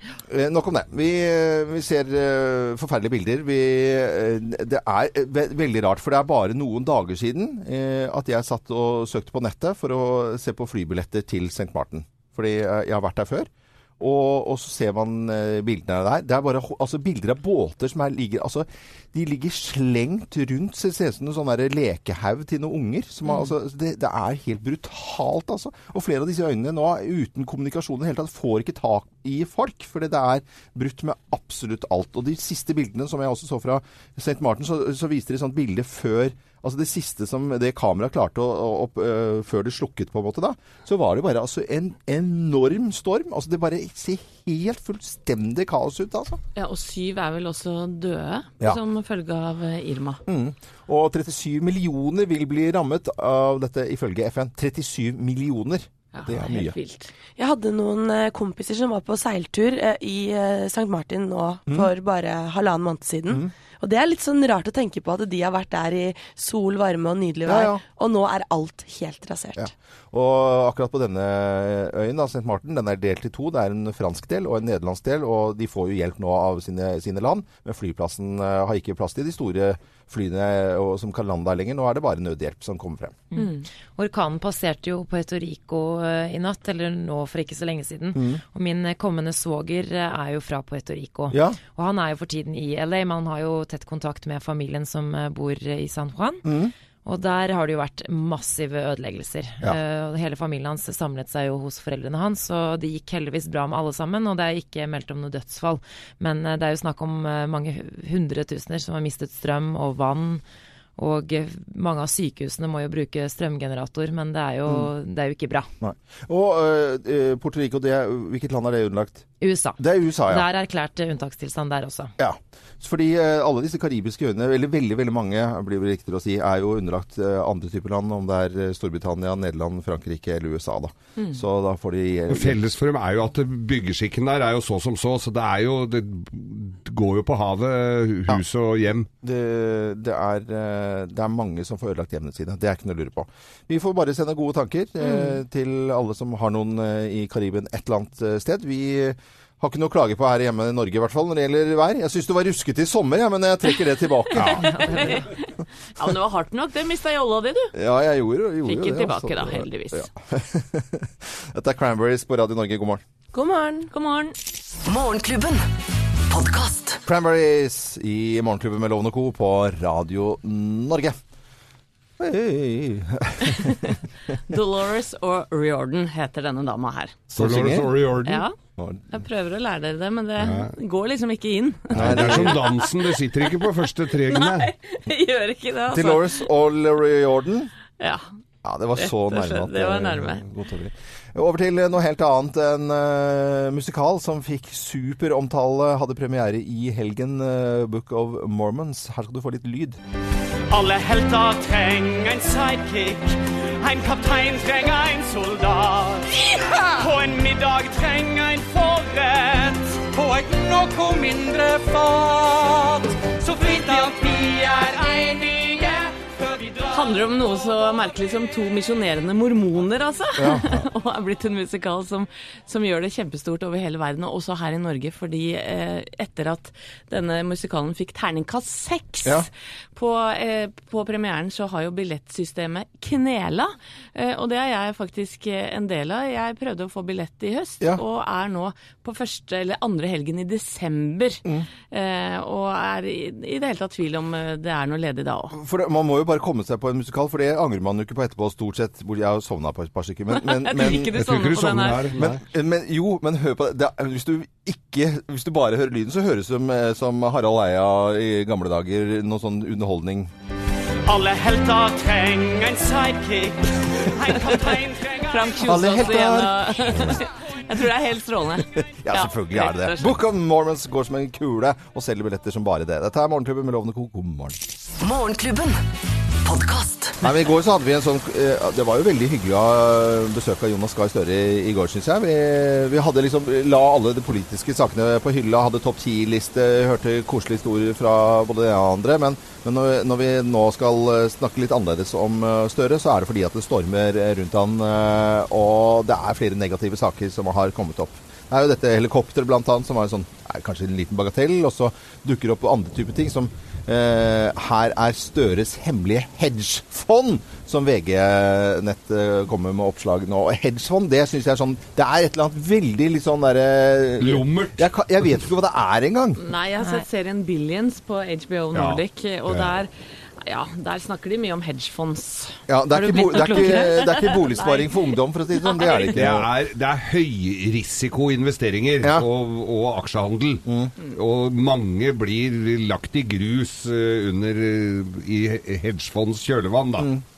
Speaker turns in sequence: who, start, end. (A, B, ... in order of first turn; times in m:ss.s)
0:00.3-0:46.4 A
0:46.5-0:50.2 B
0:50.2-0:56.8 A
0:56.1-0:57.1 B
0:57.4-1:09.7 C
1:07.4-1:07.8 A
1:09.6-1:23.1 A
1:23.3-1:36.4 D
1:23.4-1:23.6 B
1:28.1-1:28.4 A
1:31.3-1:31.6 A
1:36.4-1:36.7 A
1:37.0-1:50.4 D
1:51.0-1:55.7 D
1:55.8-1:59.2 A
1:59.4-2:02.1 D
1:59.8-2:00.4 A
2:02.2-2:12.6 A
2:12.3-2:19.1 E
2:19.2-2:34.7 A
2:34.3-2:34.7 E
2:34.6-2:37.7 B
2:34.7-2:35.3 D
2:37.7-2:43.0 A
2:38.6-2:40.0 B
2:43.3-2:43.9 C
2:43.9-2:44.4 B
2:44.8-2:45.7 F
2:46.3-2:47.0 F
2:47.0-2:51.2 A
2:52.2-2:54.0 A
2:54.5-2:57.2 B
2:57.3-2:58.0 A
2:57.4-2:58.4 E
2:58.2-2:58.6 B
2:58.8-2:59.1 A
2:59.1-3:06.4 B
3:00.4-3:00.7 E
3:01.9-3:04.7 E
3:01.9-3:02.6 A
3:05.9-3:07.7 A
3:08.0-3:08.3 B
3:08.6-3:20.0 A
3:09.0-3:10.4 B
3:20.7-3:37.0 G
3:36.9-4:05.5 B
3:40.4-3:40.8 A
4:05.5-4:11.2 A
4:10.3-4:12.2 B
4:11.1-4:12.4 E
4:12.2-4:20.3 A
4:21.0-4:25.7 G
4:25.3-4:30.2 B
4:25.6-4:27.2 A
4:28.8-4:34.6 A
4:35.0-4:35.8 F
4:36.4-4:37.2 F
4:37.2-5:16.4 A
5:14.2-5:14.9 E
5:16.4-5:19.9 B
5:18.7-5:19.7 E
5:20.4-5:22.6 B
5:22.7-5:26.4 A
5:22.9-5:23.9 D
5:23.7-5:26.3 B
5:26.1-5:37.1 E
5:30.6-5:30.9 A
5:37.0-5:37.2 A